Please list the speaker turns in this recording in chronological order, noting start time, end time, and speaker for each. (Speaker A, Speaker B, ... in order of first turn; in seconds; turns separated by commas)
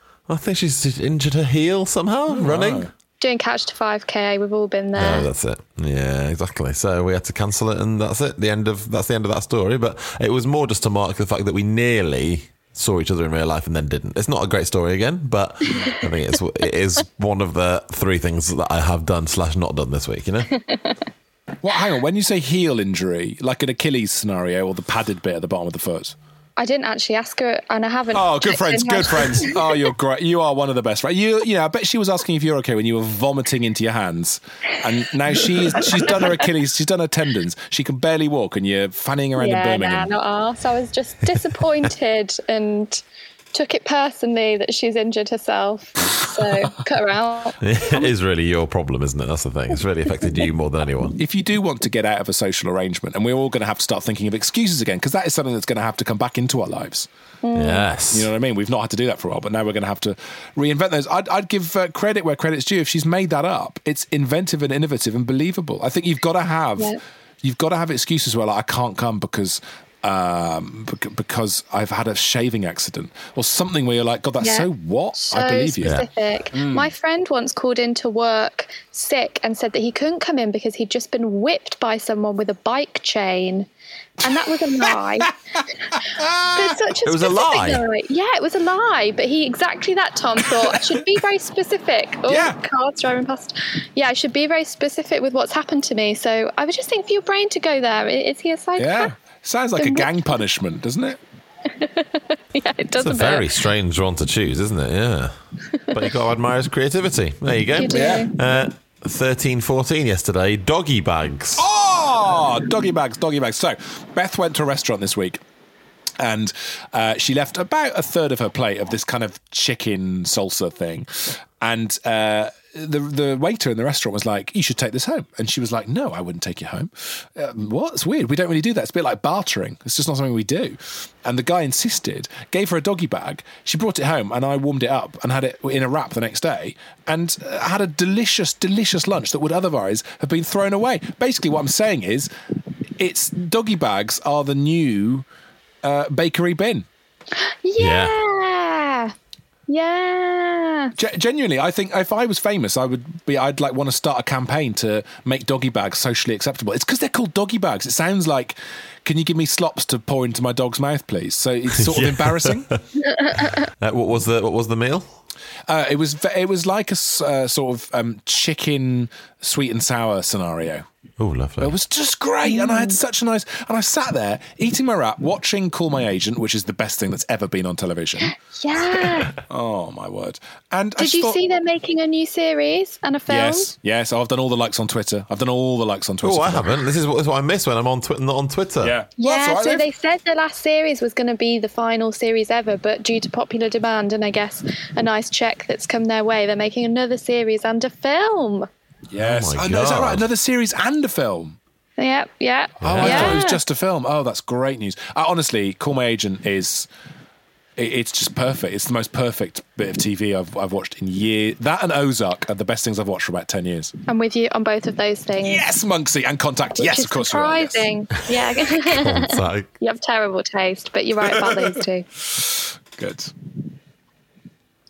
Speaker A: 0.3-2.9, Speaker B: 2.3-2.9, Speaker C: 3.2-5.3, Speaker A: 4.9-20.5, Speaker C: 20.6-21.0, Speaker B: 21.6-26.1, Speaker C: 26.6-29.6, Speaker B: 28.1-40.1, Speaker C: 39.4-48.0, Speaker A: 47.6-51.1, Speaker B: 51.2-57.1, Speaker C: 57.4-57.9, Speaker A: 57.5-58.3, Speaker B: 58.1-76.9, Speaker C: 74.4-83.7, Speaker C: 84.2-85.3, Speaker B: 85.9-86.8, Speaker C: 86.5-99.1, Speaker A: 87.0-87.8, Speaker B: 92.3-92.5, Speaker B: 98.8-101.2, Speaker C: 99.8-100.1, Speaker C: 101.8-103.5, Speaker A: 103.0-105.3, Speaker A: 105.9-111.6, Speaker C: 107.7-108.3, Speaker B: 107.9-108.3, Speaker B: 111.6-115.4, Speaker B: 116.2-142.3, Speaker B: 143.0-145.2, Speaker B: 145.8-146.9, Speaker C: 147.4-149.1, Speaker A: 147.8-148.1, Speaker C: 149.7-150.9, Speaker B: 150.9-162.7, Speaker A: 161.8-162.8, Speaker C: 163.2-163.6, Speaker A: 163.8-165.1, Speaker B: 165.7-170.8, Speaker A: 171.2-171.7, Speaker B: 171.6-178.3, Speaker C: 172.4-173.0, Speaker C: 178.5-179.3, Speaker B: 179.5-181.4, Speaker C: 181.0-183.7, Speaker B: 183.3-186.8, Speaker A: 186.2-189.0, Speaker B: 188.8-189.8, Speaker C: 189.2-198.7, Speaker B: 199.1-201.6, Speaker A: 199.2-200.3, Speaker C: 202.0-203.6, Speaker A: 202.8-203.4, Speaker B: 202.8-206.9, Speaker B: 207.8-213.9, Speaker C: 214.1-215.6, Speaker B: 215.4-217.9, Speaker C: 216.8-222.1, Speaker A: 218.8-219.7, Speaker B: 221.3-223.3